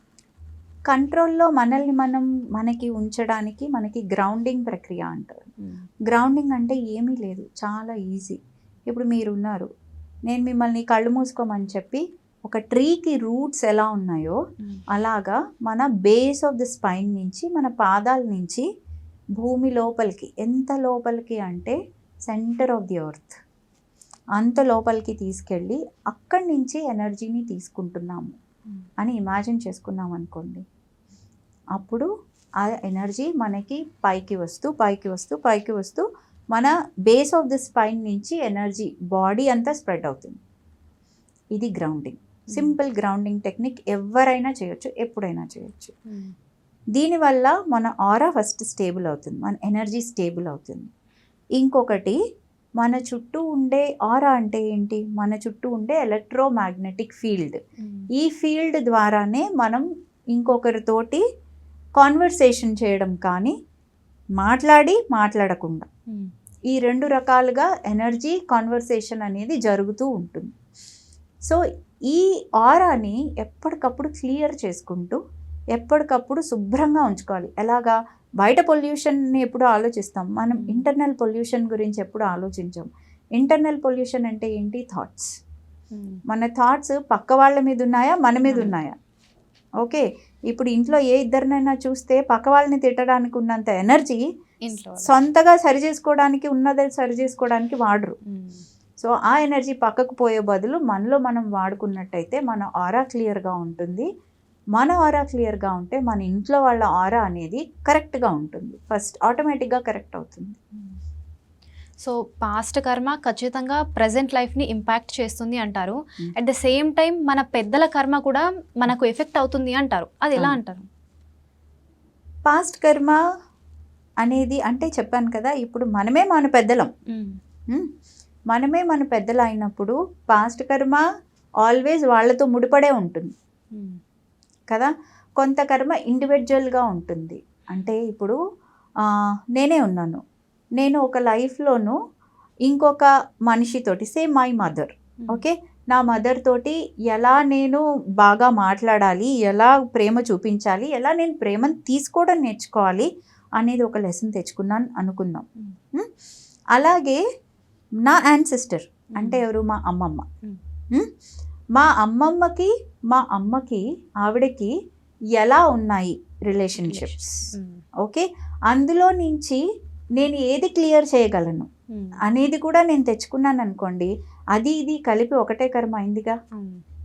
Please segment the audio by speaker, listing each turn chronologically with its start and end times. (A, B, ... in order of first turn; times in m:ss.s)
0:00.9-0:05.5 A
0:06.1-0:09.7 A
0:10.3-0:14.4 A
0:14.9-0:18.6 A
0:19.4-0:21.8 A
0:22.3-0:23.4 A
0:24.4-0:28.4 A
0:29.0-0:30.6 A
0:31.8-0:32.1 A
0:32.6-0:40.4 A
0:41.6-0:46.0 A
0:47.0-0:50.9 A
0:51.6-0:52.2 A
0:52.8-0:57.6 A
0:58.2-1:01.2 A
1:02.0-1:03.6 A
1:04.4-1:05.9 A
1:06.7-1:10.5 A
1:11.5-1:15.2 A
1:15.8-1:25.3 A
1:20.6-1:20.8 B
1:26.3-1:29.0 A
1:28.5-1:28.8 B
1:29.8-1:34.2 A
1:34.6-1:35.1 B
1:35.0-1:38.2 A
1:38.3-1:38.6 B
1:39.0-1:44.1 A
1:44.8-1:50.6 A
1:52.0-2:00.9 B
2:02.5-2:03.2 A
2:04.2-2:06.9 A
2:08.5-2:11.0 A
2:11.6-2:13.3 A
2:14.7-2:18.4 A
2:19.6-2:20.2 A
2:20.8-2:22.0 A
2:22.7-2:33.1 A
2:33.6-2:36.1 A
2:36.7-2:37.2 A
2:38.0-2:40.2 A
2:39.2-2:39.4 B
2:41.8-2:44.7 A
2:45.4-2:47.5 A
2:46.8-2:47.8 B
2:48.0-2:49.6 A
2:50.2-2:51.7 A
2:52.3-2:56.4 A
2:56.6-2:56.8 B